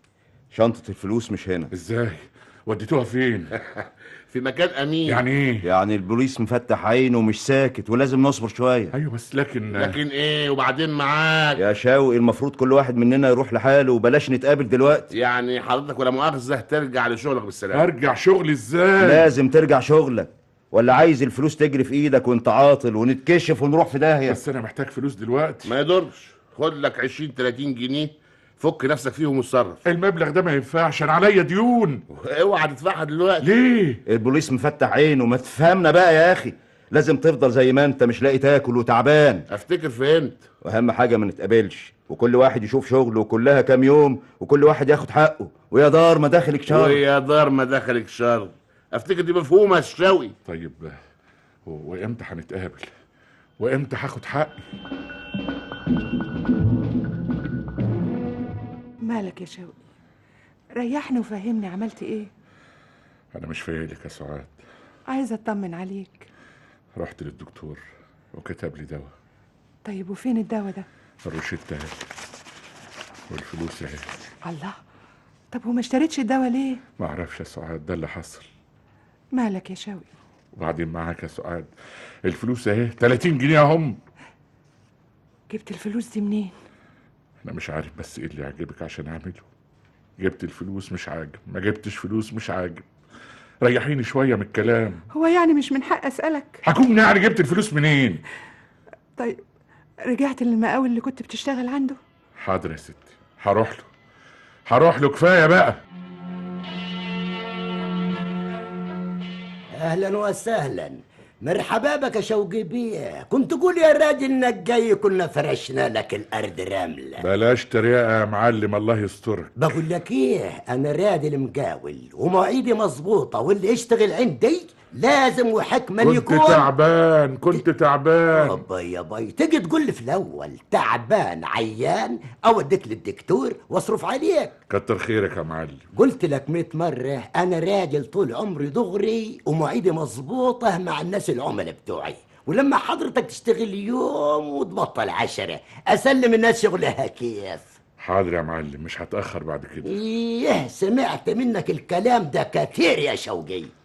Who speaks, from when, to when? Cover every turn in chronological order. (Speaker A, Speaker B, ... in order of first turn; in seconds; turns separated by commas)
Speaker A: 0.5-1.7, Speaker B: 1.7-3.5, Speaker C: 3.7-5.2, Speaker B: 5.1-5.7, Speaker A: 5.6-8.9, Speaker B: 8.9-10.0, Speaker C: 9.7-11.6, Speaker A: 11.6-15.1, Speaker C: 15.1-17.8, Speaker B: 17.7-19.3, Speaker A: 19.0-24.4, Speaker B: 24.3-25.7, Speaker C: 25.6-29.8, Speaker B: 29.9-32.0, Speaker C: 32.1-33.5, Speaker B: 33.4-34.0, Speaker A: 34.1-39.5, Speaker C: 39.5-40.4, Speaker A: 40.6-47.0, Speaker C: 46.7-50.4, Speaker B: 50.5-51.0, Speaker B: 51.6-52.9, Speaker B: 53.6-54.6, Speaker D: 59.0-59.8, Speaker D: 60.8-62.3, Speaker B: 63.3-64.5, Speaker D: 65.1-66.3, Speaker B: 67.0-67.8, Speaker B: 68.3-69.1, Speaker D: 69.8-70.9, Speaker B: 71.2-72.0, Speaker B: 73.3-74.1, Speaker D: 74.5-74.8, Speaker D: 75.5-76.8, Speaker B: 77.0-78.5, Speaker D: 79.3-80.1, Speaker B: 80.6-81.7, Speaker B: 82.2-84.0, Speaker D: 85.5-86.5, Speaker B: 87.4-89.5, Speaker B: 90.2-92.8, Speaker B: 93.6-95.0, Speaker D: 95.1-96.6, Speaker B: 96.6-98.2, Speaker D: 99.2-99.4, Speaker D: 100.0-102.0, Speaker B: 102.4-103.9, Speaker B: 104.7-105.8, Speaker E: 109.8-117.2, Speaker B: 117.2-119.5, Speaker E: 119.6-126.7, Speaker B: 126.0-128.6, Speaker E: 128.3-134.6, Speaker B: 134.7-135.8, Speaker E: 135.9-147.8, Speaker B: 148.0-149.9, Speaker E: 149.8-153.7